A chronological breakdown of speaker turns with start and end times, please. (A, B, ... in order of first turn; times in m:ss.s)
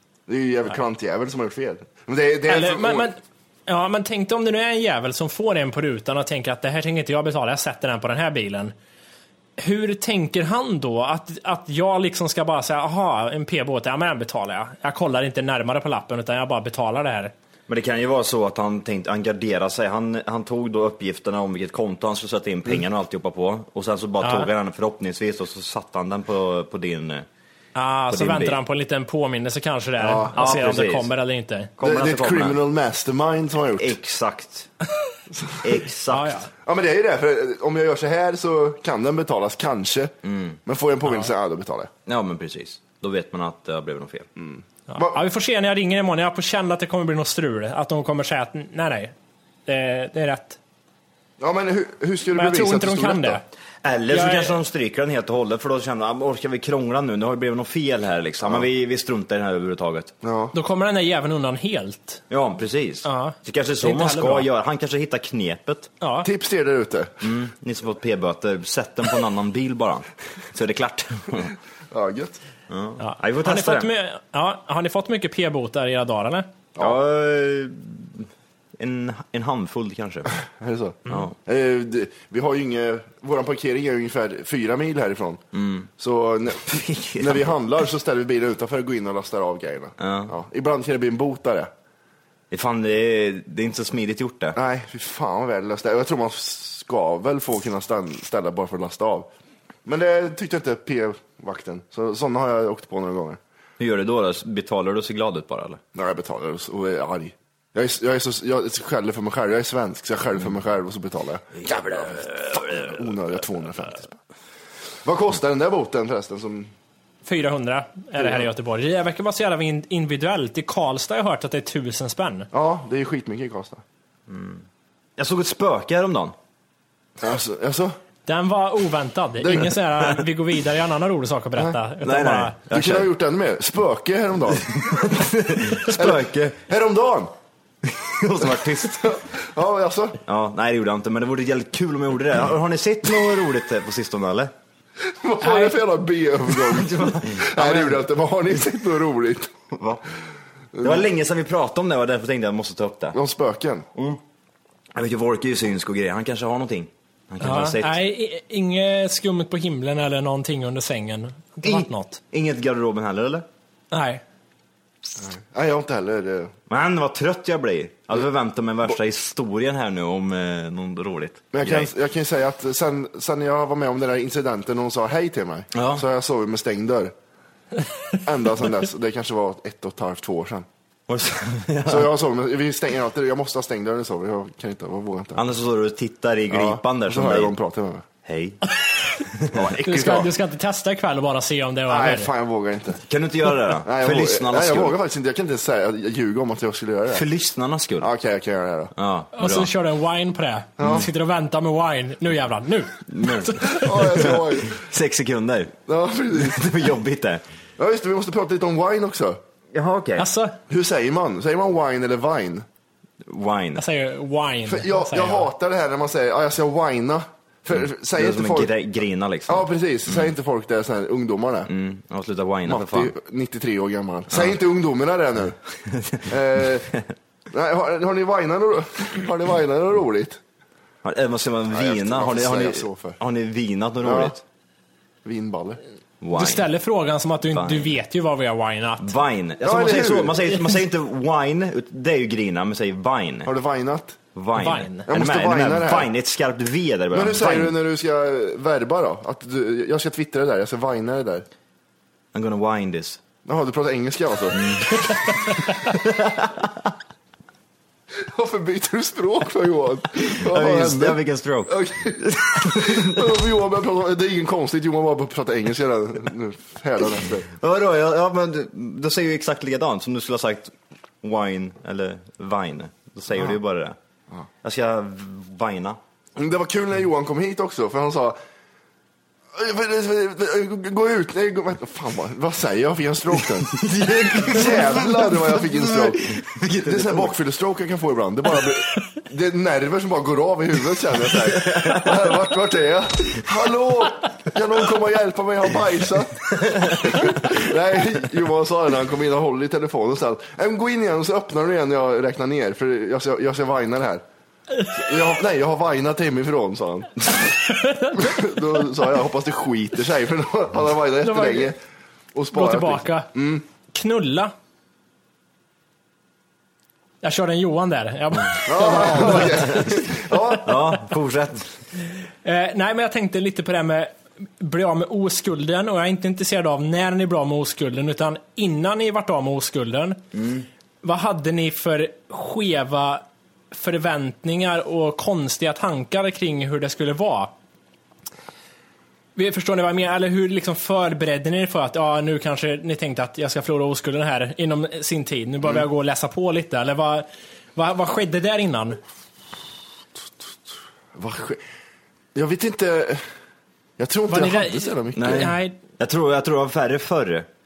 0:00.3-0:03.1 A
0:02.5-0:08.7 B
0:09.6-0:17.3 B
0:17.7-0:27.3 C
0:24.2-0:24.5 B
0:27.8-0:31.7 B
0:28.1-0:28.6 C
0:30.0-0:30.3 A
0:30.4-0:31.1 C
0:31.8-0:32.6 C
0:31.8-0:34.0 A
0:33.8-0:34.7 C
0:35.6-0:36.5 C
0:36.1-0:36.5 B
0:36.6-0:40.1 A
0:40.2-0:40.6 C
0:40.7-0:41.9 A
0:42.1-0:44.3 C
0:44.4-0:45.2 A
0:44.9-0:49.1 B
0:49.7-0:50.6 B
0:51.4-0:53.4 A
0:52.4-0:53.4 B
0:53.8-1:00.1 C
0:54.1-0:54.6 B
1:00.2-1:00.5 A
1:00.5-1:02.2 B
1:02.3-1:05.9 C
1:03.0-1:04.5 B
1:06.0-1:06.3 B
1:06.2-1:07.1 A
1:07.2-1:11.5 C
1:11.9-1:12.4 A
1:12.7-1:13.9 C
1:13.0-1:16.5 B
1:16.8-1:20.3 C
1:20.6-1:25.4 A
1:21.1-1:21.3 C
1:25.6-1:25.9 C
1:26.0-1:31.7 A
1:26.7-1:27.6 C
1:30.0-1:30.3 C
1:32.5-1:34.6 C
1:34.6-1:39.3 A
1:39.9-1:43.4 A
1:43.8-1:45.8 C
1:46.0-1:54.2 A
1:51.6-1:52.8 C
1:55.0-1:56.7 A
1:57.2-2:02.5 B
1:58.2-1:58.4 A
2:02.5-2:03.8 A
2:04.3-2:04.6 C
2:05.2-2:06.4 C
2:07.2-2:08.0 A
2:08.3-2:12.6 B
2:09.4-2:09.7 A
2:12.0-2:13.1 C
2:12.7-2:15.1 A
2:14.5-2:16.6 C
2:15.8-2:17.3 A
2:17.8-2:19.2 C
2:19.1-2:20.2 A
2:20.2-2:24.5 C
2:25.2-2:29.5 A
2:25.4-2:25.8 B
2:26.7-2:28.0 C
2:29.7-2:30.0 C
2:30.7-2:31.0 A
2:30.8-2:33.2 C
2:33.1-2:33.9 A
2:35.0-2:38.0 C
2:37.4-2:42.2 B
2:41.6-2:43.4 C
2:43.9-2:44.2 B
2:45.2-2:46.5 A
2:46.7-2:51.9 C
2:51.5-2:57.1 A
2:55.7-2:56.0 C
2:58.2-3:00.7 A
3:01.1-3:02.1 C
3:01.9-3:05.4 A
3:05.4-3:07.6 C
3:06.5-3:08.0 A
3:08.2-3:08.6 C
3:09.4-3:10.3 C
3:09.6-3:10.2 A
3:09.8-3:12.3 B
3:11.9-3:13.0 A
3:13.1-3:15.0 C
3:13.8-3:17.2 A
3:17.1-3:18.1 C
3:18.0-3:18.9 A
3:19.0-3:19.7 C
3:19.4-3:23.9 B
3:20.8-3:21.1 A
3:23.1-3:25.7 C
3:23.7-3:24.8 A
3:25.9-3:26.7 A
3:26.4-3:27.4 C
3:27.8-3:29.4 A
3:29.7-3:30.3 C
3:30.2-3:30.6 B
3:30.7-3:32.7 A
3:33.3-3:33.8 C
3:33.8-3:35.5 B
3:34.7-3:38.7 A
3:38.1-3:40.3 C
3:39.5-3:41.7 A
3:41.7-3:43.1 C
3:42.7-3:45.6 A
3:44.3-3:44.6 C
3:45.9-3:46.2 C
3:46.3-3:46.9 A
3:47.5-3:50.4 A
3:51.0-3:54.4 C
3:51.7-3:53.2 A
3:54.0-3:54.4 A
3:55.2-3:55.8 A
3:56.2-3:56.7 C
3:56.3-3:59.2 B
3:57.5-3:57.9 C
3:59.0-4:03.5 C
3:59.6-4:00.6 A
4:03.5-4:04.2 A
4:04.4-4:07.8 C
4:04.6-4:05.1 B
4:05.1-4:06.1 A
4:07.1-4:11.4 A
4:12.3-4:13.2 C
4:13.5-4:15.1 A
4:14.5-4:15.2 C
4:18.3-4:27.5 A
4:20.2-4:23.2 C
4:27.6-4:34.0 C
4:34.6-4:36.0 C
4:36.4-4:38.4 A
4:39.5-4:46.3 A
4:43.7-4:47.3 C
4:46.8-5:04.2 A
4:51.4-4:52.4 C
4:56.8-4:57.4 C
5:05.1-5:07.5 A
5:07.8-5:08.2 B
5:08.2-5:11.8 A
5:11.2-5:11.7 B
5:12.3-5:13.6 A
5:12.5-5:13.3 B
5:13.9-5:14.5 B
5:17.2-5:19.9 B
5:18.7-5:20.8 A
5:20.6-5:21.8 C
5:22.4-5:30.2 B
5:30.4-5:30.7 C
5:31.0-5:37.5 B
5:39.4-5:49.0 B
5:51.2-5:51.6 A
5:52.4-5:53.2 A
5:54.0-5:55.5 A
5:54.3-5:55.8 B
5:55.2-5:57.5 C